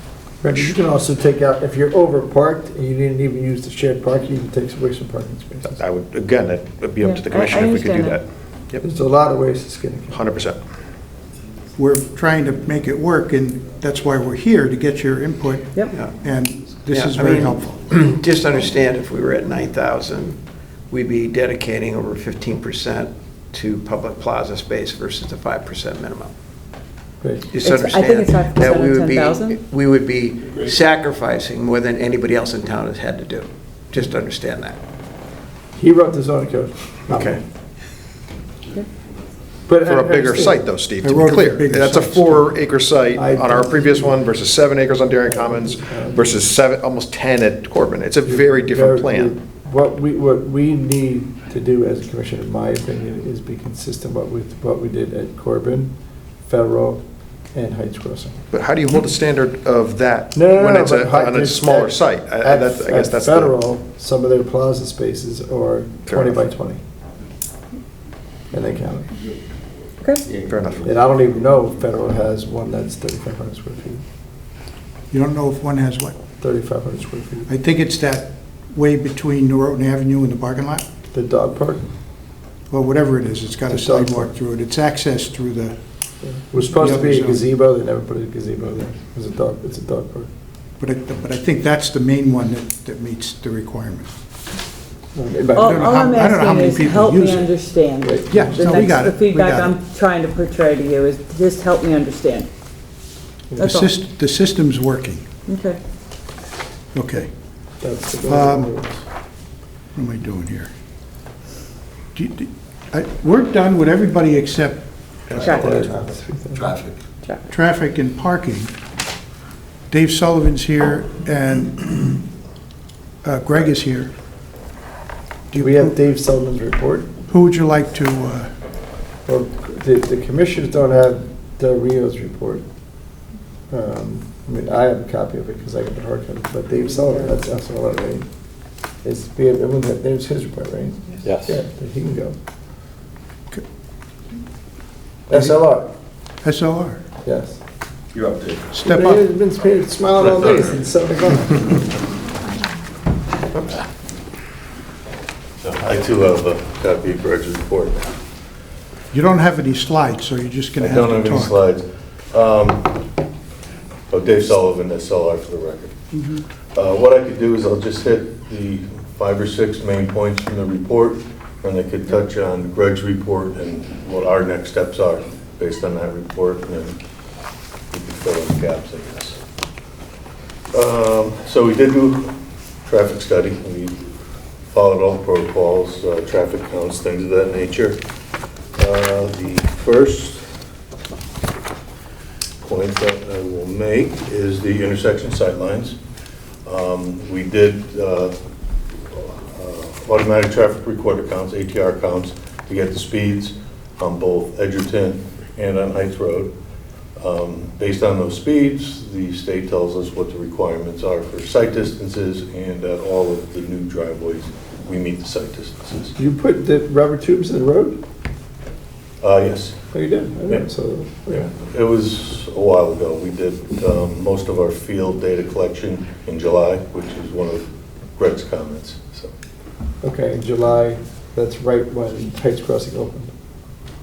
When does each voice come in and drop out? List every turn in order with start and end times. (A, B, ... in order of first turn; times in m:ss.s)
0:00.4-0:05.8 A
0:05.6-0:08.8 B
0:07.0-0:08.2 C
0:08.8-0:10.2 A
0:10.1-0:10.6 B
0:11.7-0:17.8 D
0:16.9-0:20.4 E
0:20.9-0:26.3 E
0:27.2-0:27.5 A
0:27.5-0:34.8 E
0:27.6-0:29.6 C
0:35.7-0:37.4 A
0:37.1-0:37.4 E
0:39.7-0:40.6 A
0:39.8-0:49.3 B
0:41.0-0:42.5 D
0:43.1-0:44.2 A
0:45.2-0:46.4 A
0:48.2-0:55.9 A
0:56.4-0:57.0 A
0:57.5-0:58.4 A
0:58.5-1:03.5 B
1:00.3-1:06.8 A
1:06.1-1:06.4 B
1:08.5-1:09.1 A
1:10.5-1:10.9 B
1:10.8-1:14.0 A
1:15.1-1:16.2 D
1:16.4-1:17.5 A
1:17.5-1:20.9 D
1:21.1-1:21.9 A
1:22.7-1:25.8 D
1:23.7-1:24.3 A
1:26.2-1:30.3 A
1:26.5-1:27.4 D
1:30.8-1:34.1 D
1:35.1-1:35.7 A
1:35.5-1:42.5 C
1:35.6-1:37.6 D
1:38.0-1:38.9 A
1:38.3-1:39.8 D
1:43.6-1:45.2 D
1:43.6-1:43.9 C
1:45.5-1:45.8 C
1:46.9-1:47.3 D
1:47.8-1:49.0 A
1:48.3-1:48.7 D
1:49.9-1:50.7 D
1:52.1-1:55.5 D
1:55.4-1:55.8 C
1:55.4-1:56.8 A
1:57.5-1:58.7 D
1:59.9-2:02.2 D
2:03.2-2:04.1 D
2:05.5-2:06.0 D
2:05.6-2:07.1 A
2:07.3-2:08.5 D
2:09.2-2:12.6 A
2:13.7-2:18.2 A
2:19.0-2:22.4 A
2:25.3-2:25.9 A
2:25.3-2:25.6 D
2:26.4-2:27.0 D
2:27.2-2:27.6 A
2:28.7-2:29.2 D
2:28.8-2:31.9 A
2:35.6-2:38.2 F
2:39.1-2:41.6 D
2:40.8-2:43.0 F
2:44.1-2:46.0 F
2:46.1-2:46.4 D
2:46.7-2:57.0 F
2:57.9-2:59.4 F
3:00.7-3:02.3 F
3:02.8-3:04.1 F
3:04.7-3:08.0 F
3:08.8-3:10.4 F
3:12.6-3:16.0 F
3:16.6-3:18.3 F
3:19.1-3:26.5 F
3:27.2-3:36.1 F
3:36.2-3:38.0 A
3:39.2-3:39.8 F
3:39.9-3:41.5 A
3:41.3-3:49.3 F
3:50.0-3:53.3 A